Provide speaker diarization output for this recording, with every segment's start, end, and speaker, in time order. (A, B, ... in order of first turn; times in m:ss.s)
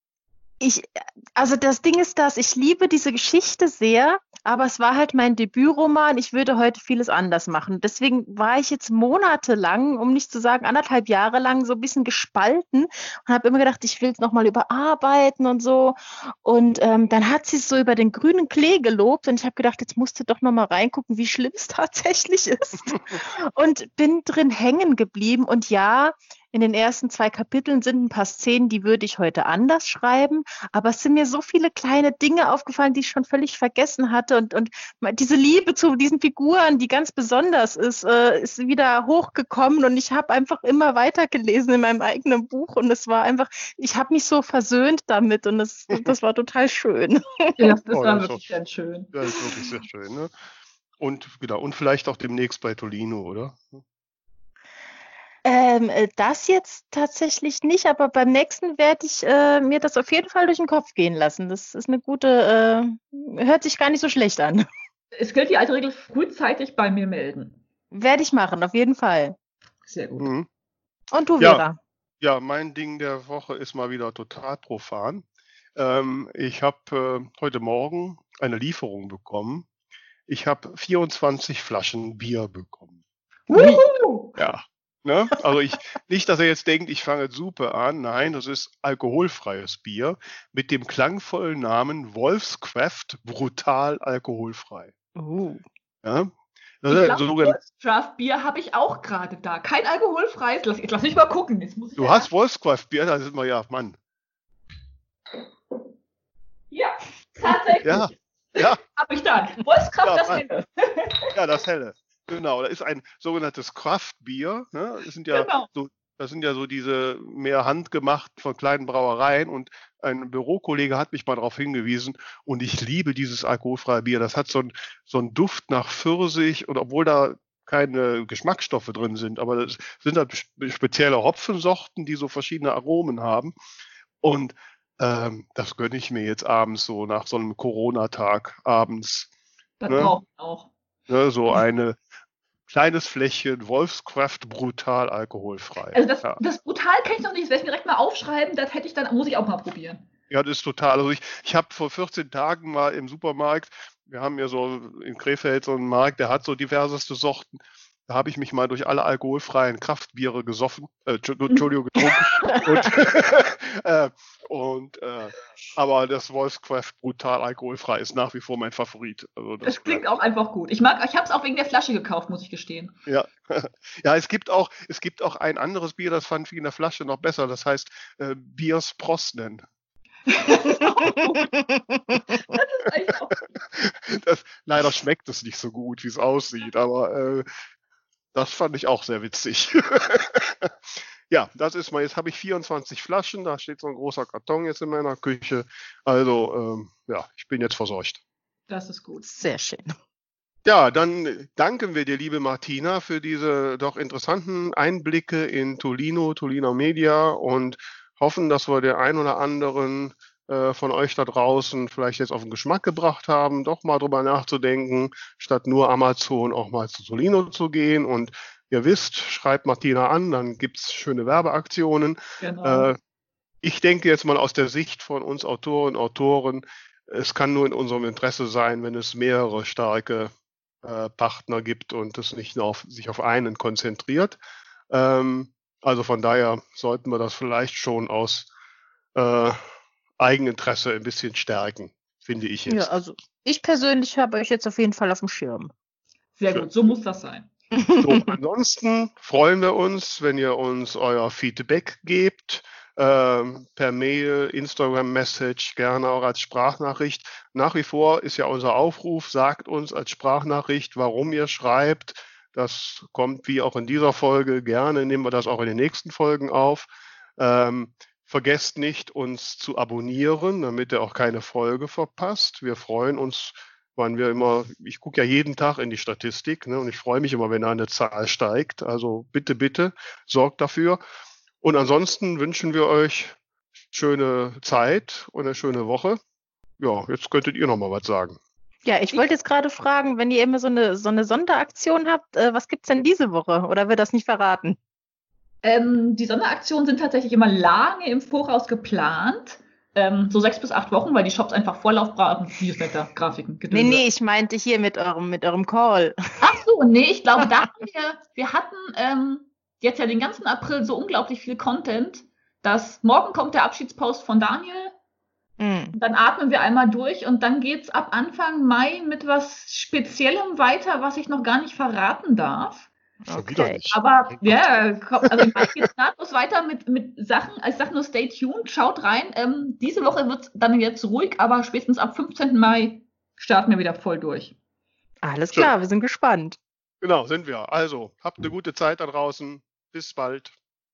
0:00.6-0:47.6 A
0:47.6-0:49.1 B
0:47.9-0:48.4 C
0:49.1-0:50.3 C
0:51.0-0:53.8 C
0:55.4-1:04.6 A
1:05.1-1:07.6 B
1:07.9-1:09.4 A
1:09.9-1:10.3 B
1:10.2-1:10.5 C
1:11.1-1:11.8 A
1:12.2-1:15.2 C
1:15.8-1:19.7 C
1:20.3-1:22.9 C
1:23.5-1:24.4 B
1:23.5-1:23.8 A
1:24.4-1:34.9 C
1:35.2-1:35.6 A
1:36.0-1:36.3 C
1:36.8-1:37.6 C
1:36.9-1:42.3 B
1:42.0-1:44.0 C
1:46.7-1:51.3 B
1:47.8-1:48.8 C
1:50.0-1:50.4 C
1:51.3-2:13.5 C
1:55.3-1:55.7 B
2:14.2-2:19.3 C
2:19.8-2:20.7 B
2:19.9-2:20.1 C
2:21.1-2:22.0 C
2:22.7-2:26.4 C
2:25.9-2:30.0 B
2:30.3-2:50.0 C
2:42.4-2:42.8 A
2:49.6-2:52.9 B
2:53.1-2:59.6 C
3:00.3-3:01.5 B
3:00.6-3:02.2 A
3:02.5-3:03.4 B
3:03.7-3:07.4 C
3:08.3-3:10.7 C
3:11.3-3:18.2 C
3:18.7-3:19.2 B
3:19.2-3:19.9 A
3:20.6-3:43.0 C
3:42.4-3:42.9 B
3:43.6-3:50.3 C
3:50.8-3:54.4 C
3:54.9-3:58.5 C
3:59.1-3:59.6 C
4:00.2-4:02.9 C
4:02.7-4:05.7 A
4:06.4-4:07.5 B
4:07.8-4:08.2 A
4:08.0-4:41.0 C
4:41.6-4:43.4 C
4:43.9-4:46.2 C
4:46.8-4:48.4 C
4:48.8-4:54.8 A
4:55.6-5:04.0 B
5:03.7-5:06.5 A
5:06.4-5:14.9 B
5:15.6-5:15.9 A
5:15.9-5:22.9 B
5:23.2-5:23.8 A
5:23.3-5:25.7 C
5:23.9-5:34.6 B
5:35.2-5:36.6 A
5:37.0-5:40.5 C